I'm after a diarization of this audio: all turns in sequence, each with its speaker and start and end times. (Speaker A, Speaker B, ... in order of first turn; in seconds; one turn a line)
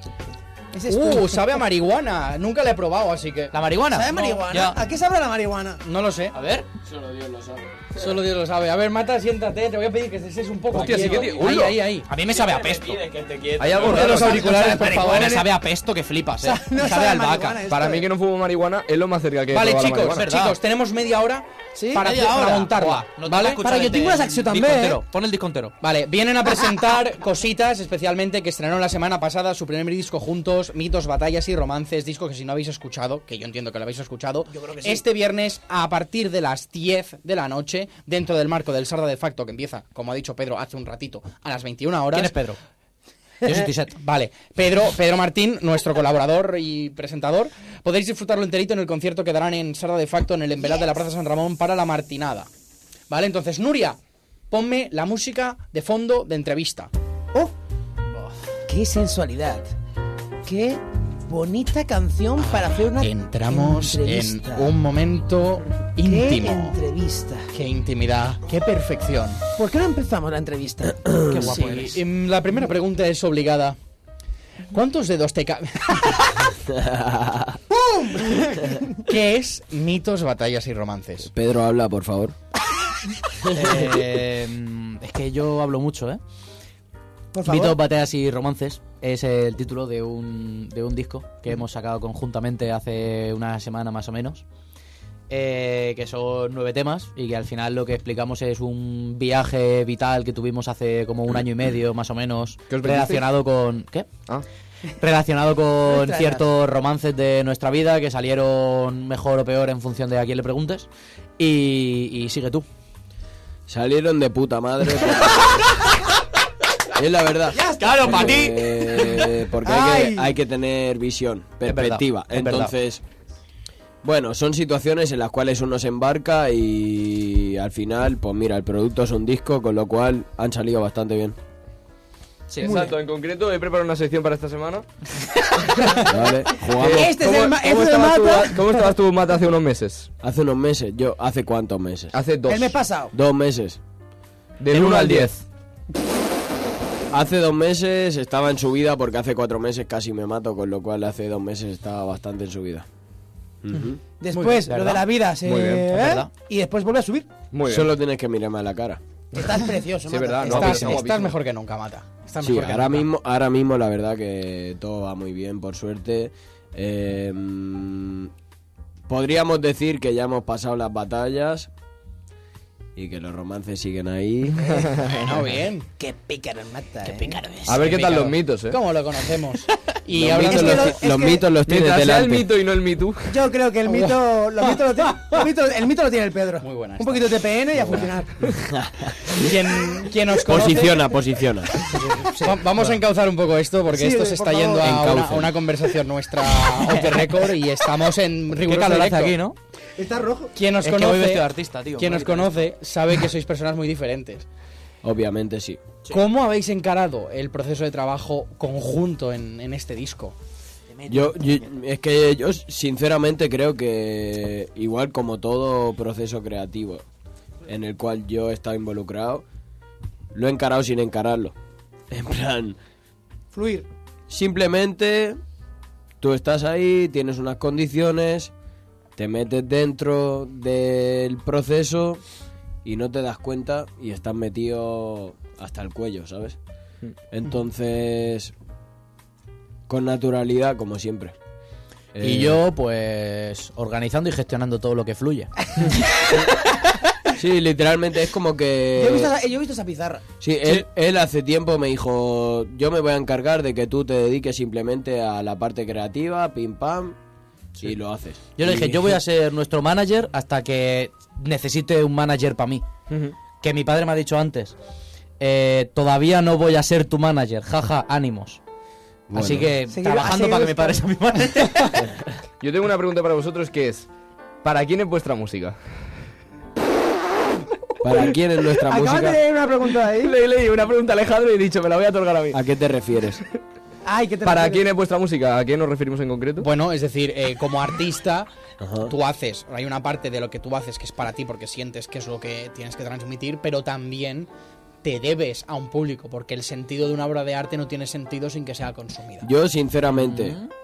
Speaker A: 0.7-1.4
Speaker B: 0.9-3.6
Speaker C: 3.5-4.8
Speaker A: 3.9-5.8
Speaker B: 5.8-6.3
Speaker C: 6.3-6.7
Speaker D: 6.8-7.9
Speaker B: 8.0-12.1
Speaker E: 10.7-11.8
Speaker D: 10.8-11.3
Speaker C: 12.0-13.1
Speaker D: 12.3-14.1
Speaker E: 13.6-14.7
Speaker B: 13.8-15.5
Speaker C: 13.8-17.6
Speaker A: 16.4-18.1
Speaker E: 17.7-20.2
Speaker B: 19.5-23.6
Speaker C: 20.1-20.6
Speaker A: 21.8-22.1
Speaker C: 22.0-25.7
Speaker A: 23.4-25.0
Speaker B: 25.8-42.4
Speaker A: 34.5-35.0
Speaker C: 42.1-42.6
Speaker C: 43.4-44.0
Speaker B: 43.9-52.5
Speaker B: 53.1-54.0
Speaker B: 54.5-56.9
Speaker A: 58.7-59.7
Speaker A: 60.4-64.7
Speaker B: 62.4-66.8
Speaker A: 66.0-67.5
Speaker B: 67.5-69.4
Speaker A: 69.6-71.1
Speaker C: 71.3-72.0
Speaker B: 71.3-73.8
Speaker B: 74.7-76.5
Speaker D: 76.7-77.6
Speaker A: 77.7-78.9
Speaker B: 79.0-81.3
Speaker D: 81.3-82.3
Speaker C: 83.5-86.2
Speaker D: 83.5-83.9
Speaker A: 87.3-87.8
Speaker C: 87.4-94.4
Speaker C: 95.3-104.1
Speaker E: 102.7-103.2
Speaker C: 105.0-112.7
Speaker A: 105.8-106.5
Speaker D: 113.7-115.7
Speaker D: 117.0-123.0
Speaker A: 117.5-118.5
Speaker C: 117.8-119.2
Speaker A: 119.6-120.3
Speaker C: 121.6-122.7
Speaker D: 124.0-131.4
Speaker E: 132.6-134.8
Speaker A: 132.6-132.9
Speaker D: 136.1-137.2
Speaker E: 136.6-140.1
Speaker A: 136.8-138.9
Speaker D: 140.2-142.2
Speaker E: 142.1-142.8
Speaker A: 142.4-143.1
Speaker D: 143.1-143.8
Speaker E: 144.6-145.4
Speaker D: 144.7-145.2
Speaker D: 147.1-152.9
Speaker D: 153.6-154.0
Speaker A: 154.2-157.3
Speaker B: 154.3-154.7
Speaker C: 154.7-155.1
Speaker E: 155.4-155.9
Speaker C: 155.9-156.3
Speaker E: 157.5-157.9
Speaker D: 157.7-159.0
Speaker A: 159.3-161.1
Speaker E: 160.1-161.3
Speaker B: 160.4-163.1
Speaker D: 162.4-168.3
Speaker D: 169.1-171.7
Speaker D: 172.9-174.8
Speaker E: 174.6-175.4
Speaker B: 174.8-175.9
Speaker A: 176.0-177.6
Speaker C: 177.1-178.2
Speaker E: 177.7-178.8
Speaker B: 177.8-181.1
Speaker D: 180.1-182.5
Speaker A: 180.5-181.4
Speaker E: 181.7-183.5
Speaker A: 183.3-188.5
Speaker B: 183.9-185.5
Speaker B: 186.6-188.1
Speaker D: 188.6-189.5
Speaker B: 189.3-199.4
Speaker D: 190.4-191.8
Speaker C: 191.9-193.0
Speaker A: 193.9-195.0
Speaker D: 194.8-195.5
Speaker C: 198.7-199.6
Speaker A: 200.0-200.6
Speaker B: 200.6-204.5
Speaker C: 200.8-202.6
Speaker D: 205.0-205.8
Speaker B: 206.1-210.3
Speaker C: 210.9-211.7
Speaker D: 211.1-217.0
Speaker D: 217.7-219.4
Speaker D: 220.3-221.5
Speaker D: 222.1-222.8
Speaker A: 223.5-223.9
Speaker D: 224.3-225.4
Speaker D: 226.2-228.5
Speaker D: 229.2-232.2
Speaker D: 232.8-236.6
Speaker D: 237.3-238.5
Speaker D: 239.9-241.3
Speaker D: 242.2-242.6
Speaker C: 242.2-245.5
Speaker D: 247.4-249.3
Speaker A: 248.9-250.2
Speaker D: 250.4-257.2
Speaker D: 257.8-259.1
Speaker C: 258.6-262.9
Speaker E: 263.1-263.4
Speaker C: 263.6-264.8
Speaker C: 265.4-268.6
Speaker D: 269.3-269.7
Speaker C: 269.3-272.1
Speaker A: 269.9-271.0
Speaker E: 272.6-274.1
Speaker E: 274.6-275.8
Speaker D: 278.0-279.4
Speaker A: 278.9-280.4
Speaker E: 280.2-282.6
Speaker D: 282.5-283.4
Speaker A: 284.1-284.9
Speaker E: 284.4-286.7
Speaker B: 286.6-288.5
Speaker D: 288.8-289.1
Speaker B: 289.1-294.5
Speaker B: 295.0-299.5
Speaker D: 299.4-300.6
Speaker C: 300.1-300.7